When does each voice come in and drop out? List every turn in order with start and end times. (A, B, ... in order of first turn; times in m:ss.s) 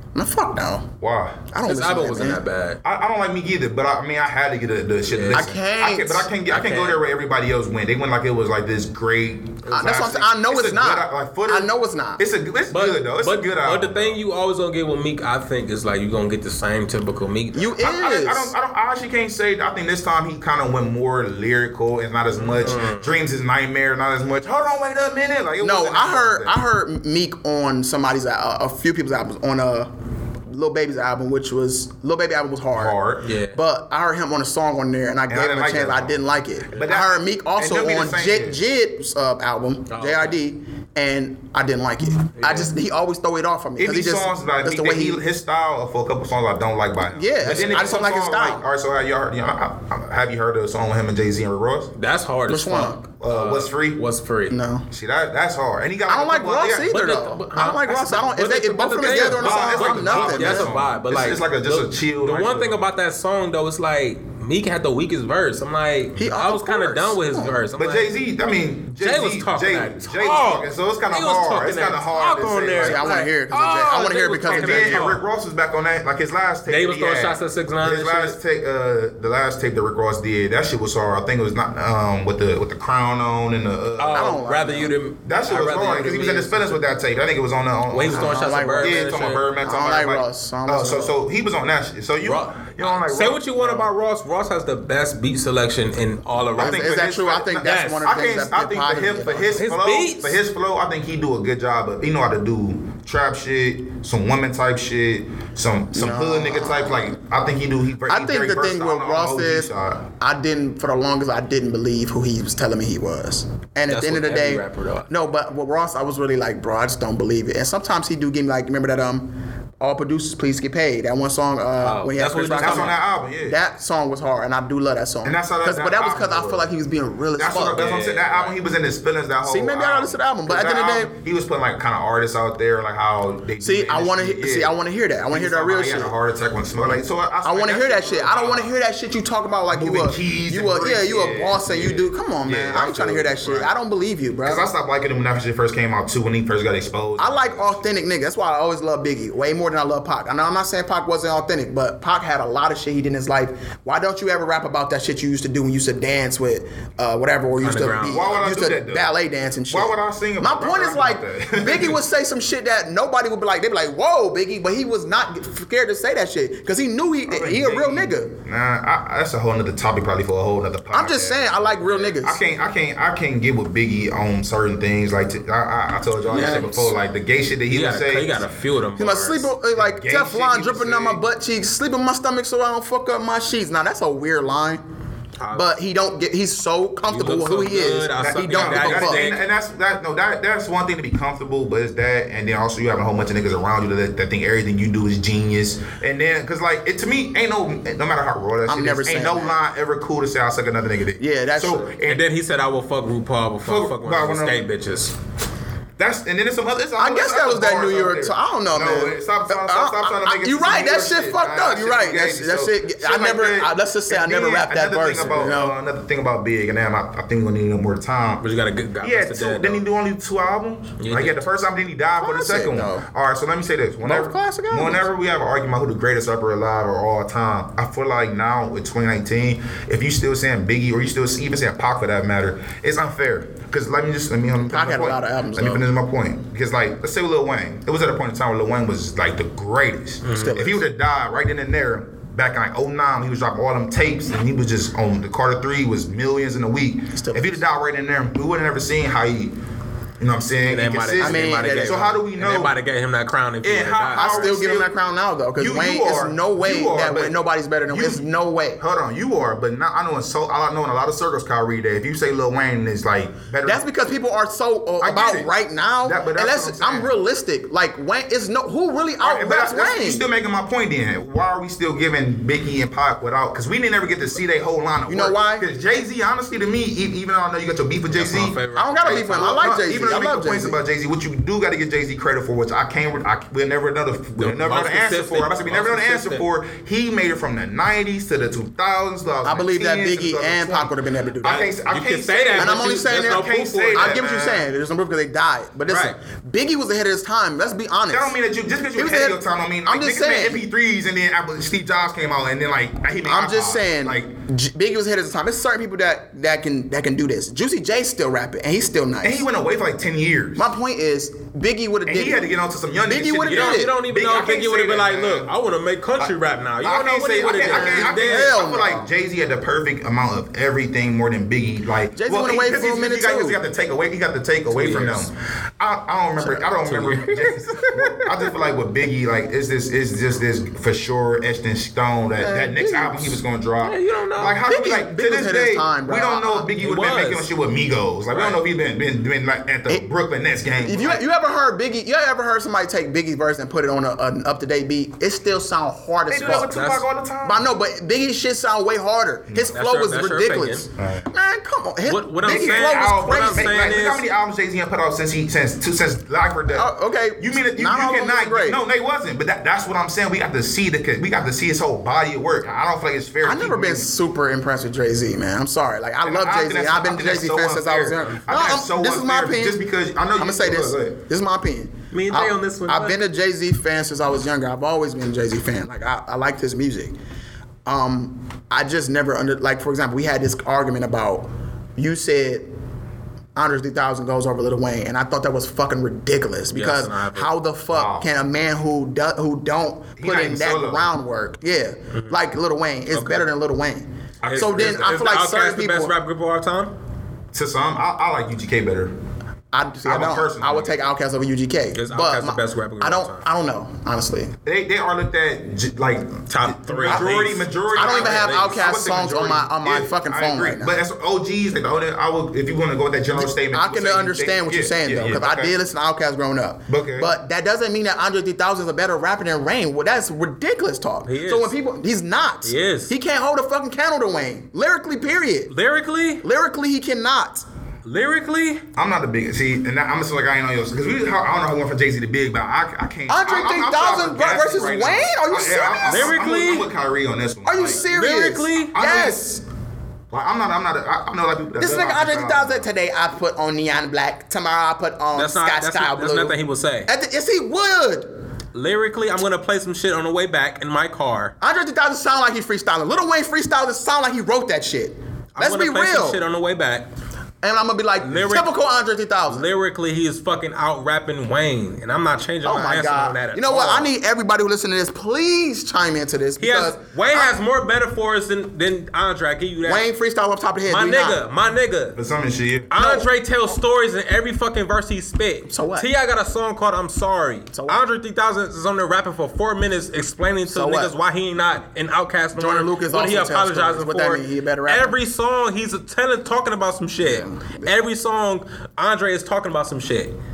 0:00.1-0:00.9 A
0:01.0-0:01.5 B
0:01.5-0:02.4 A
0:01.6-0:02.8 C
0:02.8-0:14.2 B
0:05.1-0:05.5 C
0:05.3-0:06.3 A
0:06.5-0:07.0 C
0:09.6-0:10.2 C
0:09.7-0:12.2 A
0:12.7-0:17.8 C
0:17.5-0:18.5 A
0:17.8-0:26.6 B
0:22.4-0:23.1 C
0:25.6-0:29.9 A
0:30.5-0:32.9 A
0:32.7-0:33.3 B
0:33.2-0:33.6 C
0:33.5-0:45.2 A
0:35.3-0:36.2 B
0:36.7-0:38.6 B
0:39.9-0:40.4 C
0:42.4-0:42.7 C
0:43.8-0:51.9 B
0:47.1-0:48.6 A
0:47.4-0:48.0 C
0:52.0-0:54.6 C
0:52.5-0:53.0 A
0:53.2-0:54.0 B
0:54.5-0:54.9 A
0:54.9-0:57.0 B
0:56.1-1:00.7 A
0:56.9-1:08.1 C
0:59.3-1:02.9 B
1:06.2-1:07.6 A
1:07.8-1:13.1 B
1:09.0-1:15.2 C
1:12.8-1:15.1 A
1:14.5-1:24.4 B
1:16.7-1:18.4 C
1:24.0-1:26.8 C
1:24.1-1:24.9 A
1:25.2-1:33.9 B
1:27.9-1:29.4 C
1:28.1-1:31.1 A
1:32.2-1:36.9 C
1:36.6-1:39.6 A
1:36.6-1:50.1 B
1:37.6-1:38.1 C
1:39.6-1:40.4 C
1:45.9-1:47.1 A
1:48.1-1:49.7 A
1:50.2-2:07.8 A
1:53.9-1:55.1 C
2:01.8-2:03.0 C
2:02.6-2:03.6 B
2:05.2-2:06.7 B
2:07.4-2:14.7 B
2:07.7-2:08.6 C
2:09.4-2:11.1 A
2:13.6-2:16.1 A
2:15.3-2:18.7 B
2:17.4-2:24.6 A
2:19.7-2:23.7 B
2:24.4-2:27.8 B
2:27.2-2:48.3 A
2:37.6-2:38.3 C
2:38.0-2:39.1 B
2:39.7-2:42.0 B
2:47.3-2:58.4 B
2:50.9-2:52.4 A
2:56.3-2:56.9 A
2:56.3-2:56.7 C
2:57.7-2:59.5 C
2:59.0-3:04.8 A
2:59.7-3:01.2 B
3:05.4-3:05.7 C
3:05.5-3:09.3 A
3:07.1-3:09.4 C
3:08.2-3:22.2 B
3:18.6-3:19.6 A
3:21.2-3:21.9 A
3:22.1-3:25.1 C
3:23.6-3:24.6 B
3:26.0-3:38.4 B
3:27.0-3:35.7 A
3:38.4-3:39.8 C
3:39.0-4:09.5 B
3:41.0-3:41.4 C
3:42.2-3:43.0 A
3:44.0-3:45.1 A
3:54.7-3:55.8 A
4:00.2-4:00.6 C
4:00.3-4:00.8 A
4:07.1-4:07.6 A
4:10.2-4:12.8 B
4:10.7-4:14.8 C
4:11.2-4:12.2 A
4:13.6-4:14.9 B
4:14.1-4:18.8 A
4:15.6-4:18.3 B
4:18.8-4:23.9 B
4:23.6-4:30.2 A
4:25.0-4:25.5 B
4:26.0-4:27.1 B
4:29.2-4:54.7 B
4:35.1-4:35.6 A
4:38.1-4:39.6 C
4:38.7-4:40.8 A
4:44.4-4:46.4 C
4:49.4-4:51.7 A
4:51.9-4:54.2 C
4:52.6-4:58.3 A
4:55.9-4:56.1 C
4:58.1-5:04.3 B
4:59.0-5:00.6 A
5:03.3-5:09.4 A
5:09.2-5:10.7 B
5:10.6-5:12.4 A
5:12.0-5:15.5 B
5:13.0-5:13.9 A
5:13.4-5:18.6 C
5:16.8-5:41.2 B
5:17.7-5:19.1 A
5:22.2-5:23.6 A
5:24.8-5:25.3 C
5:26.4-5:26.6 A
5:26.8-5:27.6 C
5:27.3-5:28.5 A
5:32.4-5:33.4 A
5:33.8-5:34.6 C
5:34.6-5:36.7 A
5:36.8-5:37.5 C
5:38.3-5:38.6 C
5:40.8-5:46.8 A
5:46.3-5:47.7 B
5:46.3-5:47.0 C
5:47.4-5:53.9 A
5:49.5-5:49.8 B
5:49.7-5:50.8 C
5:51.0-5:51.3 B
5:52.0-5:54.2 C
5:52.4-6:04.1 B
5:56.7-5:58.8 A
6:03.4-6:09.8 A
6:06.2-6:11.2 B
6:10.3-6:17.1 A
6:12.1-6:13.2 C
6:17.9-6:22.7 A
6:23.6-6:36.1 A
6:26.7-6:27.5 C
6:27.9-6:28.3 B
6:30.2-6:31.1 B
6:32.1-6:32.4 C
6:33.1-6:33.4 C
6:34.4-6:35.2 B
6:34.4-6:36.9 C
6:37.5-6:39.1 B
6:39.7-6:44.6 A
6:40.0-6:41.0 B
6:41.9-6:43.4 C
6:44.6-6:55.8 B
6:46.5-6:48.9 C
6:47.9-6:51.0 A
6:53.3-7:05.7 A
6:56.9-6:57.3 B
7:01.3-7:01.7 C
7:02.6-7:03.1 C
7:05.7-7:06.4 C
7:06.4-7:07.6 A
7:08.0-7:08.8 C
7:09.0-7:18.0 B
7:13.3-7:16.4 A
7:16.1-7:16.9 C
7:17.6-7:19.4 A
7:17.9-7:19.0 C
7:18.9-7:19.6 B
7:20.3-7:22.9 B
7:21.8-7:28.3 A
7:25.3-7:27.1 C
7:28.7-7:31.6 C
7:31.6-7:36.4 A
7:35.6-7:37.1 C
7:37.6-7:39.7 A
7:38.2-7:38.7 C
7:39.5-7:44.1 C
7:42.6-7:47.5 A
7:46.6-7:50.1 C
7:49.8-7:51.4 A
7:50.9-7:52.2 C
7:52.1-7:52.9 B
7:52.9-8:10.3 C
7:53.0-7:53.3 A
7:55.7-7:56.1 A
7:57.7-7:58.0 A
8:00.7-8:01.1 A
8:02.6-8:05.1 A
8:07.2-8:07.9 A